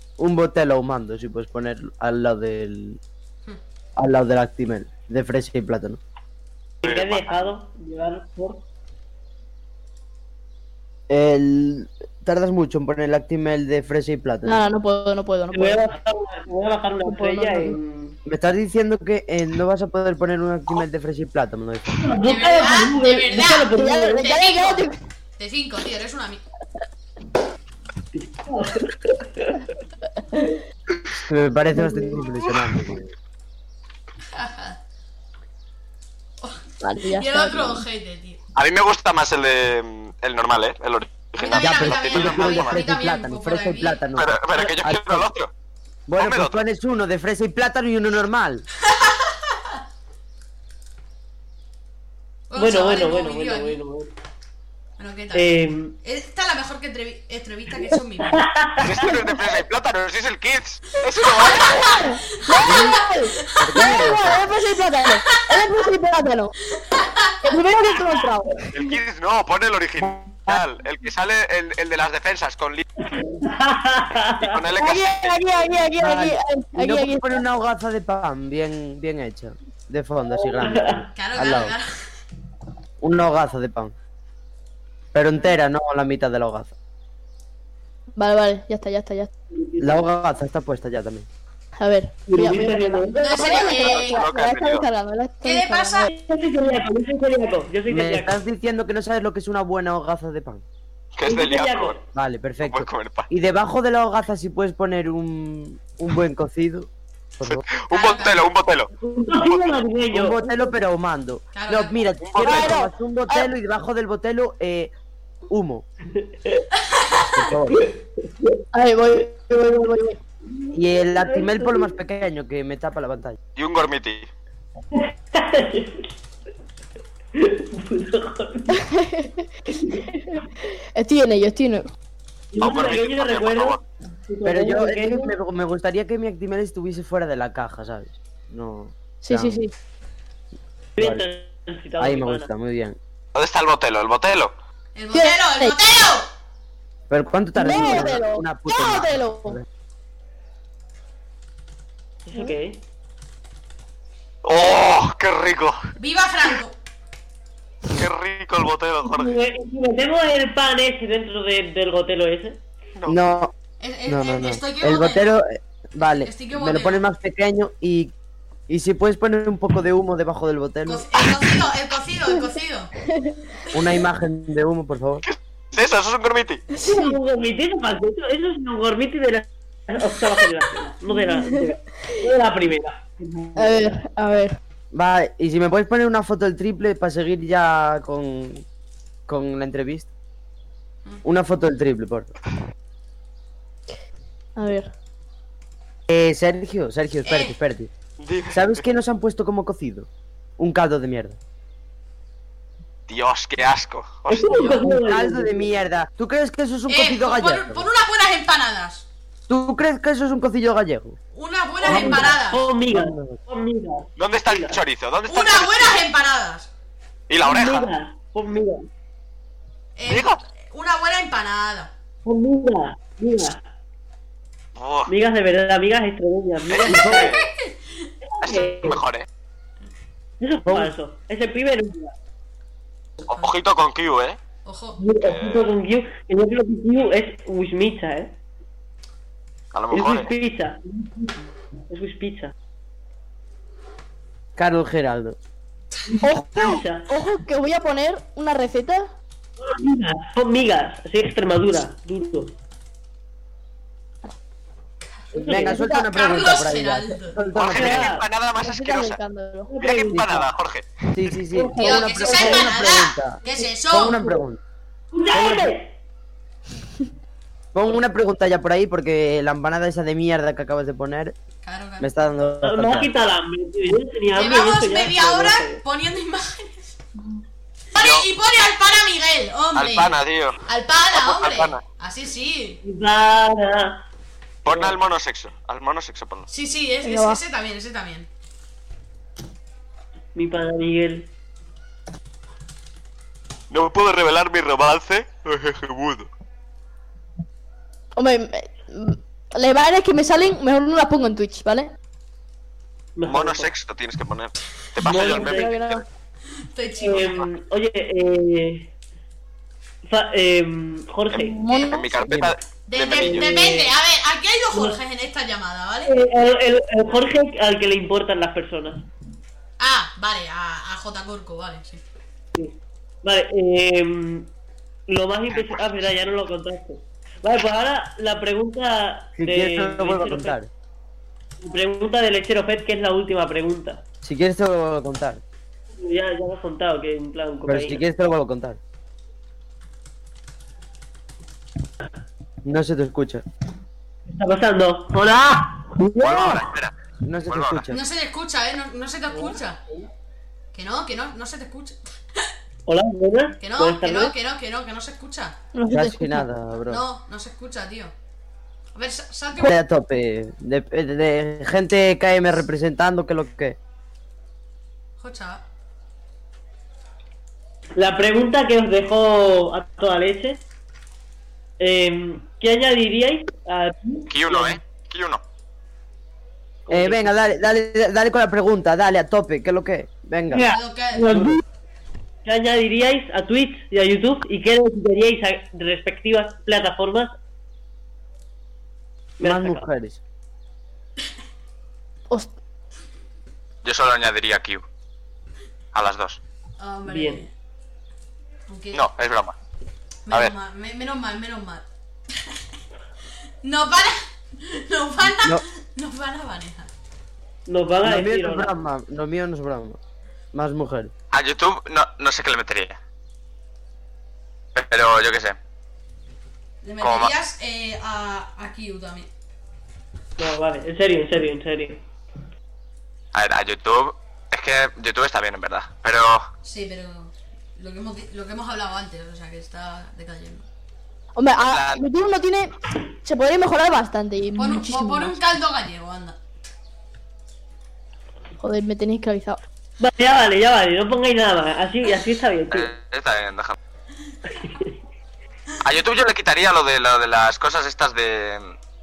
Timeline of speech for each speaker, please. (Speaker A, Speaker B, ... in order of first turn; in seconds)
Speaker A: 0.2-3.0, 4.0-6.0, 11.1-14.6, 18.2-22.0, 31.2-33.1, 41.5-45.3, 46.1-48.6, 62.6-63.0, 63.5-64.5, 70.0-70.6, 76.0-81.7, 83.0-83.9, 85.1-86.7, 89.8-91.3, 97.9-100.6, 102.1-107.6, 110.1-114.9, 115.5-115.8, 117.3-117.8, 120.7-123.4, 134.4-139.6, 141.0-141.2, 142.0-143.0, 147.1-149.6, 163.1-163.5, 164.1-168.1, 168.7-171.1, 173.7-175.2, 184.9-188.7, 189.3-190.1, 191.2-192.3, 196.1-197.9, 198.5-201.4, 204.8-207.9, 209.5-211.2, 211.9-212.3, 212.9-213.4, 226.8-227.3, 230.7-230.9, 244.6-245.4, 255.4-258.1, 260.1-260.4, 261.1-264.6, 265.4-265.7, 267.7-271.4, 272.0-273.1, 312.3-312.5, 329.4-330.7, 334.2-335.4, 337.6-338.8, 342.6-343.4, 347.2-348.0, 355.9-357.0, 359.6-363.8, 376.9-380.7, 381.3-381.6, 389.4-390.2, 405.2-405.6, 408.0-410.0, 410.5-411.1
Speaker B: 6.8-8.6, 15.5-18.2, 22.0-24.3, 28.1-29.7, 52.5-54.1, 55.3-55.9, 58.3-59.1, 73.1-74.6, 80.4-81.1, 89.5-90.0, 92.3-93.2, 96.1-98.4, 101.2-102.0, 109.0-110.7, 116.2-116.6, 117.7-118.6, 120.6-121.9, 124.9-126.1, 127.3-128.8, 129.7-130.1, 132.5-135.3, 140.9-142.5, 152.2-152.8, 159.1-162.6, 176.8-184.0, 204.3-205.7, 211.8-214.8, 217.4-218.9, 222.2-223.6, 225.1-227.4, 228.3-229.0, 230.4-232.1, 235.0-238.3, 239.9-242.5, 246.1-247.1, 249.6-252.6, 255.3-255.8, 257.7-258.3, 259.7-260.4, 261.5-263.7, 265.1-265.9, 272.6-275.8, 282.8-284.0, 284.6-285.0, 290.3-291.3, 303.1-303.7, 305.0-305.7, 307.0-308.9, 310.0-311.6, 313.2-313.9, 314.7-315.0, 316.1-319.1, 322.5-324.5, 325.1-330.6, 331.6-334.0, 335.9-338.0, 344.3-346.7, 349.3-349.6, 352.9-354.3, 367.9-370.6, 371.8-374.8, 376.9-377.3, 380.5-381.6, 382.4-387.3, 389.4-389.8, 397.1-397.4, 407.7-408.7, 420.4-422.0, 440.0-442.9, 444.5-444.9
Speaker C: 6.8-7.4, 38.5-42.8, 44.1-45.5, 46.2-46.6, 58.8-62.1, 68.7-72.8, 74.4-75.5, 93.3-94.9, 101.1-102.0, 102.6-103.3, 107.4-108.9, 112.2-112.7, 123.5-124.3, 132.6-133.8, 143.3-144.5, 154.4-155.8, 157.9-159.3, 175.2-176.6, 198.2-198.8, 203.1-204.8, 214.2-216.0, 217.3-217.9, 220.1-220.4, 224.8-225.1, 226.7-227.4, 228.4-229.3, 233.2-234.4, 235.2-235.7, 239.7-240.3, 257.5-259.2, 259.8-261.1, 277.9-278.3, 279.7-280.6, 281.1-281.8, 284.6-286.5, 293.7-296.3, 303.2-306.0, 311.3-313.5, 325.5-325.8, 346.2-346.9, 347.4-347.8, 374.3-375.4, 393.8-394.8, 395.9-396.4, 398.9-399.5, 411.3-413.0, 414.7-415.6, 417.0-417.3, 423.3-426.4, 431.6-432.0, 442.7-443.8, 445.8-448.8
Speaker D: 14.4-15.9, 17.0-17.8, 23.7-24.9, 31.7-32.2, 36.8-37.8, 61.6-66.5, 67.4-68.9, 74.8-77.4, 88.2-89.3, 91.8-96.1, 112.4-113.5, 118.7-120.2, 128.7-130.4, 130.9-131.9, 139.2-139.7, 145.1-145.8, 147.5-149.6, 173.1-173.4, 176.8-177.2, 181.1-181.7, 183.6-184.6, 194.6-194.9, 246.2-249.1, 255.7-256.1, 258.6-259.7, 287.0-287.4, 298.1-301.9, 305.1-306.0, 311.4-312.2, 355.7-356.5, 431.4-435.4, 438.6-439.6
Speaker E: 22.2-26.4, 34.3-34.8, 36.4-38.4, 41.4-44.0, 48.9-49.5, 52.5-53.8, 55.0-58.4, 61.4-63.8, 65.2-65.6, 66.8-67.6, 81.1-81.9, 93.2-94.3, 95.4-96.1, 107.9-108.5, 111.5-112.0, 116.8-117.3, 144.9-146.3, 156.0-156.8, 163.8-165.3, 166.0-167.0, 170.8-172.9, 197.2-197.6, 206.9-209.1, 211.3-212.6, 215.2-216.7, 219.9-221.9, 227.1-228.1, 233.2-233.5, 234.6-235.0, 255.3-257.4, 261.8-264.3, 271.6-272.1, 274.3-277.0, 277.9-282.8, 286.5-288.3, 306.6-307.4, 311.6-312.2, 312.9-316.1, 319.8-322.0, 347.9-349.8, 350.7-352.5, 353.6-355.6, 356.9-358.1, 358.9-359.7, 365.2-365.6, 380.7-381.4, 396.8-397.5, 398.7-399.0, 400.2-401.8, 403.6-406.9, 416.8-419.3, 426.6-430.6, 434.6-436.4